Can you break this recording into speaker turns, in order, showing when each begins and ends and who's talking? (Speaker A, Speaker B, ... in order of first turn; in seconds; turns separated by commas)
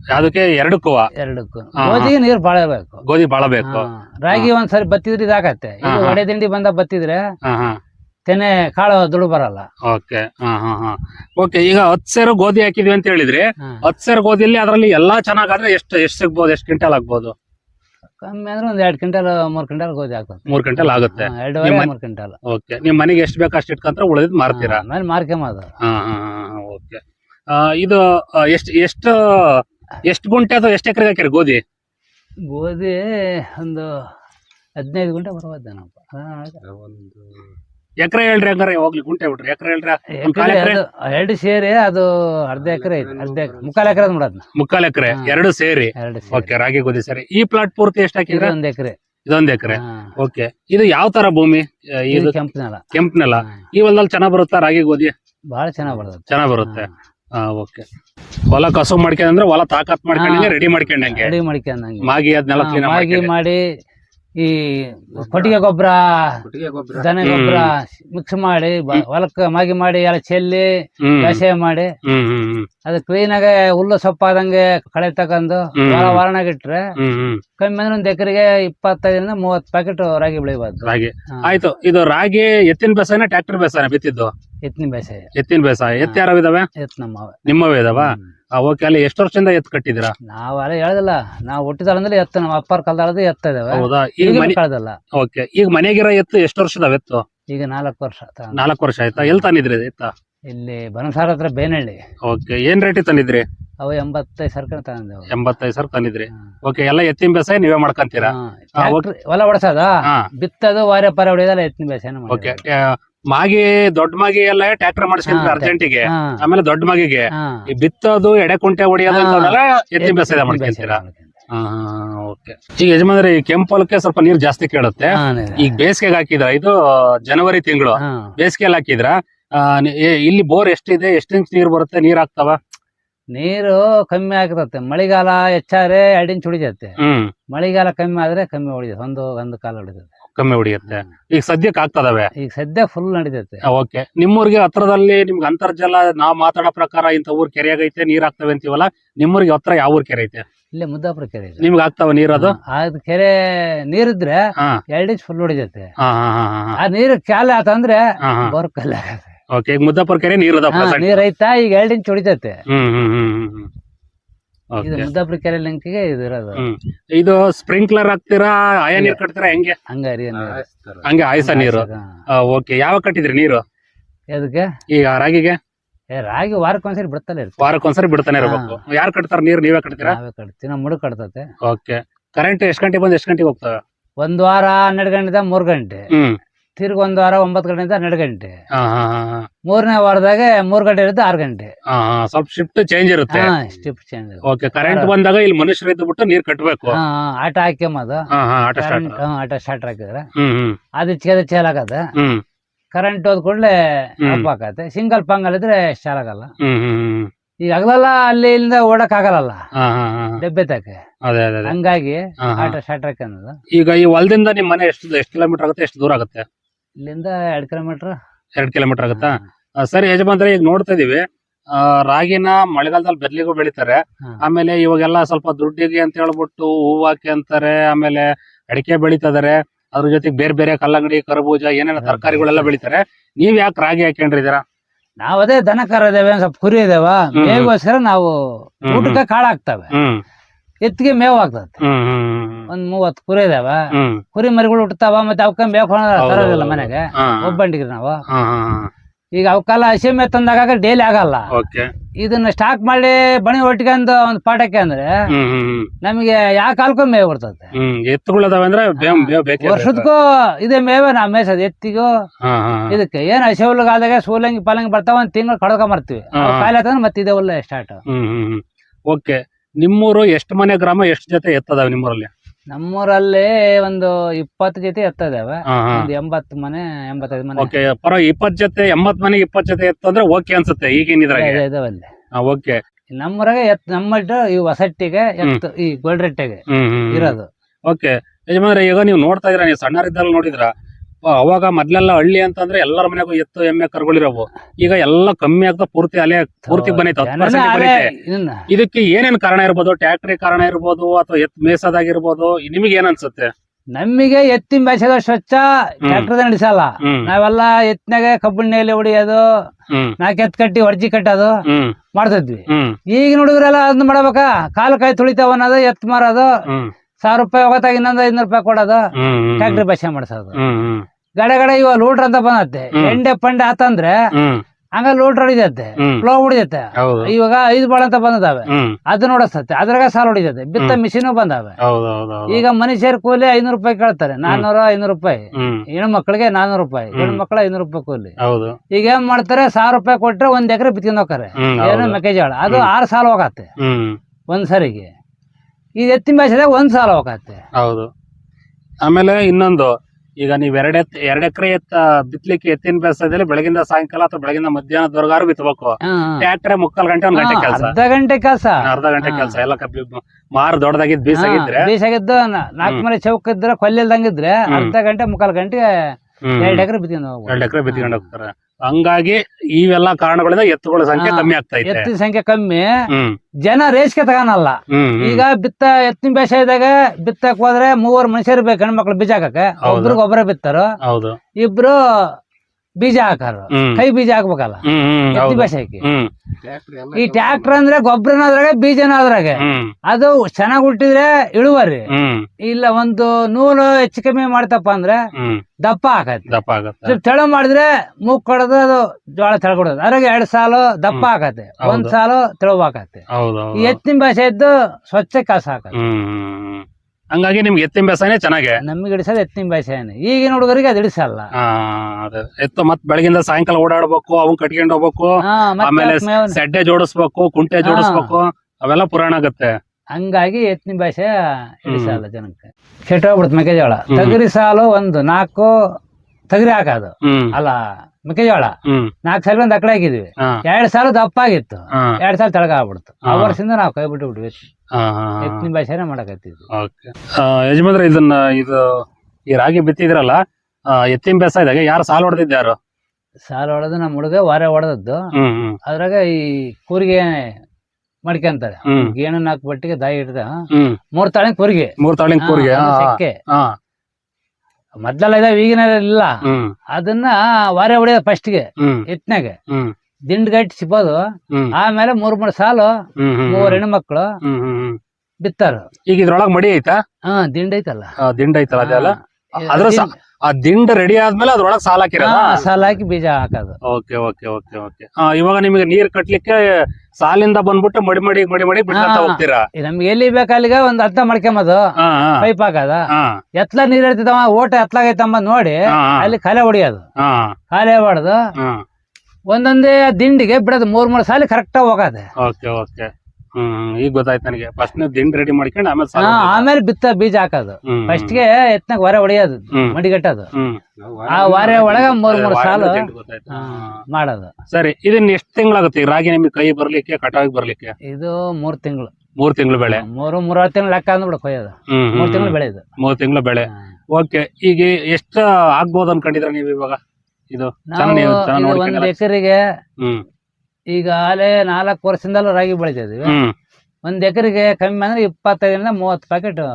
Speaker A: 0.1-1.1, Speaker B: 1.2-3.0, Speaker A: 1.8-2.1, Speaker A: 3.0-4.5, Speaker B: 3.6-7.2, Speaker A: 5.8-6.2, Speaker A: 7.4-7.8, Speaker B: 8.3-9.7, Speaker A: 9.8-17.3, Speaker B: 18.2-22.4, Speaker A: 20.5-21.9, Speaker A: 22.5-24.8, Speaker B: 24.5-25.7, Speaker A: 25.8-31.6, Speaker B: 32.5-34.0, Speaker B: 34.8-36.6, Speaker C: 36.6-37.5, Speaker A: 38.0-40.8, Speaker B: 40.2-44.5, Speaker C: 42.6-43.9, Speaker A: 44.5-48.5, Speaker B: 46.0-46.5, Speaker B: 48.3-49.0, Speaker A: 49.3-52.4, Speaker B: 49.7-50.1, Speaker B: 52.1-52.9, Speaker A: 52.9-55.1, Speaker B: 55.5-56.9, Speaker A: 56.3-57.9, Speaker A: 58.5-61.3, Speaker B: 60.1-63.6, Speaker A: 62.1-63.3, Speaker B: 64.4-66.4, Speaker C: 65.2-65.5, Speaker C: 66.4-67.2, Speaker B: 67.0-70.7, Speaker A: 67.2-67.7, Speaker A: 71.0-71.4, Speaker B: 71.2-71.9, Speaker A: 72.0-72.7, Speaker B: 72.8-76.8, Speaker A: 75.8-76.2, Speaker A: 77.0-77.4, Speaker B: 77.6-81.6, Speaker A: 80.8-84.3, Speaker B: 84.7-85.3, Speaker A: 85.3-86.7, Speaker B: 86.8-88.2, Speaker A: 87.5-90.1, Speaker B: 90.3-95.0, Speaker A: 93.7-94.6, Speaker A: 95.2-97.2, Speaker B: 97.5-98.6, Speaker A: 98.5-100.1, Speaker B: 99.2-99.5, Speaker B: 100.5-102.0, Speaker A: 102.2-103.5, Speaker B: 103.8-105.4, Speaker A: 105.3-109.0, Speaker B: 108.2-112.6, Speaker A: 112.3-121.0, Speaker B: 115.3-116.4, Speaker B: 117.3-117.7, Speaker B: 119.1-121.4, Speaker A: 121.5-132.6, Speaker B: 125.1-125.8, Speaker B: 128.0-128.3, Speaker B: 133.3-137.0, Speaker A: 137.0-137.3, Speaker B: 137.5-140.1, Speaker A: 140.4-142.3, Speaker B: 142.4-143.6, Speaker A: 143.7-150.4, Speaker B: 150.8-151.7, Speaker A: 151.6-152.6, Speaker B: 152.4-154.4, Speaker B: 154.9-155.9, Speaker A: 156.0-156.8, Speaker B: 156.8-159.3, Speaker A: 158.2-158.5, Speaker A: 159.5-161.2, Speaker B: 160.7-162.6, Speaker A: 162.7-163.7, Speaker A: 164.7-165.1, Speaker B: 164.8-166.6, Speaker A: 166.6-169.8, Speaker B: 169.9-170.7, Speaker C: 170.4-171.1, Speaker A: 171.0-173.6, Speaker B: 171.4-172.1, Speaker B: 174.3-174.7, Speaker A: 174.9-175.6, Speaker B: 176.1-177.7, Speaker A: 177.6-180.2, Speaker B: 178.4-178.8, Speaker B: 180.0-181.5, Speaker A: 181.6-183.8, Speaker B: 184.2-186.1, Speaker A: 186.1-186.4, Speaker B: 186.8-188.6, Speaker A: 188.7-189.5, Speaker B: 189.7-191.7, Speaker A: 191.9-193.5, Speaker B: 193.3-195.1, Speaker A: 194.4-197.0, Speaker B: 196.9-198.2, Speaker A: 198.3-199.2, Speaker B: 198.8-200.3, Speaker A: 200.4-200.8, Speaker B: 201.0-202.1, Speaker A: 202.2-202.4, Speaker B: 202.9-206.5, Speaker A: 206.6-207.3, Speaker B: 207.7-209.6, Speaker A: 209.8-210.4, Speaker B: 210.4-211.0, Speaker A: 211.2-211.7, Speaker B: 211.7-213.6, Speaker A: 212.4-212.8, Speaker A: 213.7-216.5, Speaker B: 217.0-218.1, Speaker A: 218.6-234.6, Speaker B: 219.1-219.4, Speaker B: 232.0-232.7, Speaker B: 235.2-239.9, Speaker A: 237.3-237.7, Speaker A: 238.9-239.2, Speaker A: 239.9-240.2, Speaker B: 240.8-241.8, Speaker A: 241.8-242.7, Speaker B: 242.7-243.8, Speaker A: 243.9-244.2, Speaker B: 244.3-248.2, Speaker A: 246.2-247.6, Speaker A: 248.3-248.9, Speaker B: 249.4-251.5, Speaker A: 251.5-251.9, Speaker B: 252.2-255.1, Speaker A: 255.3-255.9, Speaker B: 256.0-257.7, Speaker A: 257.8-260.1, Speaker B: 259.0-262.1, Speaker A: 262.4-263.0, Speaker B: 262.9-268.0, Speaker A: 266.4-266.7, Speaker A: 268.1-272.3, Speaker B: 272.7-277.7, Speaker A: 275.7-276.1, Speaker A: 277.6-281.6, Speaker B: 281.3-282.1, Speaker A: 282.4-282.8, Speaker B: 283.2-287.5, Speaker A: 286.7-290.7, Speaker A: 291.2-298.1, Speaker B: 296.7-298.7, Speaker A: 298.7-303.5, Speaker B: 303.9-309.4, Speaker A: 307.0-307.3, Speaker A: 309.9-310.2, Speaker B: 310.2-311.5, Speaker A: 311.7-312.0, Speaker B: 312.1-316.5, Speaker A: 312.7-313.0, Speaker B: 317.2-319.0, Speaker A: 319.2-319.8, Speaker B: 319.6-320.6, Speaker A: 320.6-321.1, Speaker B: 321.4-324.2, Speaker A: 324.4-324.6, Speaker B: 325.0-331.8, Speaker A: 327.0-327.3, Speaker A: 328.7-329.0, Speaker A: 331.8-332.6, Speaker B: 332.5-338.3, Speaker A: 335.6-335.9, Speaker A: 337.1-337.4, Speaker A: 338.4-338.8, Speaker B: 338.9-343.7, Speaker A: 341.6-342.9, Speaker A: 343.8-344.2, Speaker B: 344.5-345.1, Speaker B: 346.0-347.6, Speaker A: 347.8-348.1, Speaker A: 349.0-357.9, Speaker B: 356.0-356.5, Speaker B: 357.3-359.6, Speaker A: 358.9-361.9, Speaker B: 361.3-365.9, Speaker A: 366.5-366.9, Speaker B: 366.6-368.2, Speaker A: 367.5-372.1, Speaker B: 371.2-372.9, Speaker A: 373.1-373.4, Speaker B: 373.7-380.9, Speaker A: 374.9-375.4, Speaker A: 379.8-380.2, Speaker A: 381.0-381.4, Speaker B: 381.6-382.4, Speaker B: 383.0-386.0, Speaker A: 383.7-384.0, Speaker A: 384.9-386.3, Speaker C: 386.6-387.8, Speaker B: 387.1-392.1, Speaker A: 389.6-389.9, Speaker A: 392.1-392.5, Speaker B: 392.6-395.2, Speaker A: 395.4-395.6, Speaker B: 395.8-403.2, Speaker A: 396.5-397.2, Speaker A: 401.8-402.1, Speaker A: 403.3-404.0, Speaker B: 403.8-405.9, Speaker A: 405.9-408.8, Speaker B: 408.8-411.5, Speaker A: 411.6-419.7, Speaker B: 415.4-416.6, Speaker B: 417.8-418.3, Speaker B: 420.2-421.3, Speaker B: 421.8-425.7, Speaker A: 421.9-422.2, Speaker A: 424.1-424.4, Speaker B: 426.5-434.6, Speaker A: 427.2-427.5, Speaker A: 428.9-429.1, Speaker A: 433.3-433.6, Speaker A: 434.9-435.6, Speaker B: 435.4-436.6, Speaker A: 436.7-438.9, Speaker A: 439.5-442.8, Speaker B: 443.5-445.2, Speaker A: 445.4-445.8, Speaker B: 445.9-447.5, Speaker B: 448.3-450.6, Speaker A: 448.9-449.1, Speaker A: 450.7-451.0, Speaker B: 451.2-453.4, Speaker A: 452.0-453.8, Speaker B: 455.0-456.3, Speaker A: 456.5-456.7, Speaker B: 457.0-459.6, Speaker A: 458.8-459.1, Speaker A: 459.7-459.9, Speaker B: 460.3-461.2, Speaker B: 461.8-462.9, Speaker A: 463.2-463.8, Speaker B: 463.5-464.3, Speaker A: 464.4-465.0, Speaker B: 465.4-465.9, Speaker A: 466.1-467.0, Speaker B: 467.3-468.1, Speaker A: 468.2-472.7, Speaker B: 468.8-470.1, Speaker B: 472.2-473.8, Speaker A: 473.8-479.7, Speaker B: 478.9-481.8, Speaker A: 482.0-482.5, Speaker B: 482.4-483.0, Speaker A: 483.1-483.4, Speaker B: 483.6-487.1, Speaker A: 485.9-486.3, Speaker A: 487.2-487.6, Speaker B: 487.7-488.4, Speaker B: 489.5-492.3, Speaker A: 492.4-496.7, Speaker B: 496.2-500.5, Speaker A: 497.9-498.4, Speaker A: 500.5-500.8, Speaker C: 501.0-501.7, Speaker B: 501.3-504.5, Speaker A: 501.4-503.9, Speaker A: 504.7-507.9, Speaker B: 508.1-509.1, Speaker A: 509.4-510.0, Speaker B: 509.8-512.8, Speaker A: 511.9-517.0, Speaker A: 517.5-519.1, Speaker B: 517.9-519.6, Speaker A: 520.0-520.2, Speaker B: 520.9-523.4, Speaker A: 523.2-523.5, Speaker B: 524.1-526.7